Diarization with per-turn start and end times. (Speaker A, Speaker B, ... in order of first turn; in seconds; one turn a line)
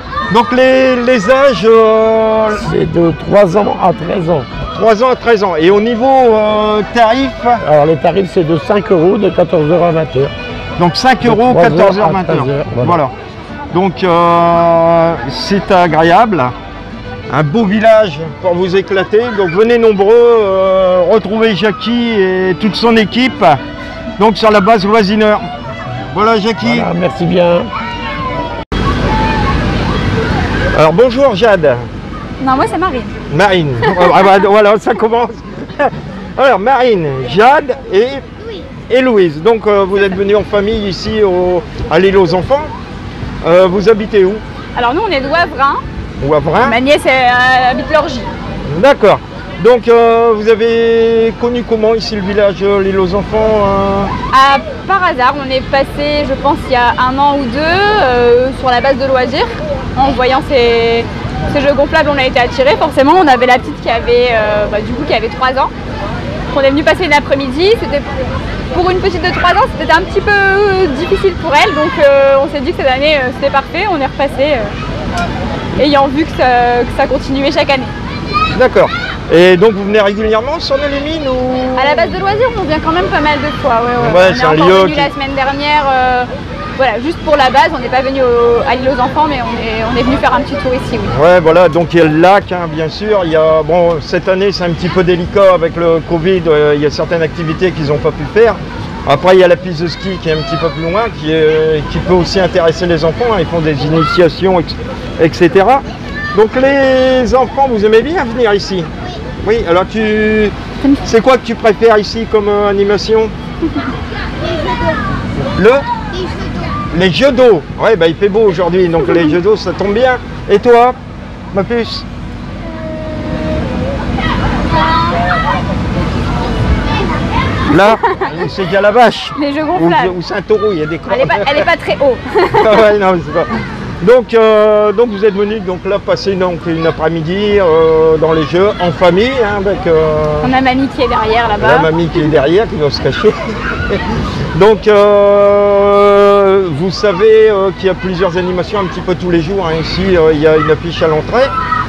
Speaker A: 0.3-2.7
Speaker B: 2.6-4.5
Speaker A: 4.7-7.6
Speaker B: 7.6-10.3
Speaker A: 10.8-13.1
Speaker B: 11.2-13.0
Speaker A: 13.7-16.5
Speaker A: 17.3-23.6
Speaker A: 24.2-25.4
Speaker A: 26.1-26.9
Speaker B: 26.6-27.7
Speaker A: 30.7-31.8
Speaker C: 32.4-33.1
Speaker A: 33.3-38.2
Speaker A: 38.9-42.7
Speaker A: 43.4-44.4
Speaker C: 44.7-45.8
Speaker A: 46.2-46.8
Speaker C: 46.6-48.3
Speaker A: 48.7-54.1
Speaker C: 54.3-65.7
Speaker C: 66.5-68.1
Speaker C: 68.7-74.7
Speaker C: 75.8-77.9
Speaker A: 78.5-82.2
Speaker C: 81.7-91.1
Speaker A: 84.0-85.1
Speaker A: 91.1-108.9
Speaker A: 109.4-113.3
Speaker A: 115.5-115.8
Speaker A: 116.9-121.0
Speaker A: 121.5-122.0
Speaker A: 127.7-131.7
Speaker C: 129.3-130.1
Speaker C: 131.1-132.8
Speaker A: 132.5-133.5
Speaker A: 134.0-140.5
Speaker C: 140.4-142.3
Speaker A: 141.6-144.0
Speaker A: 144.5-151.5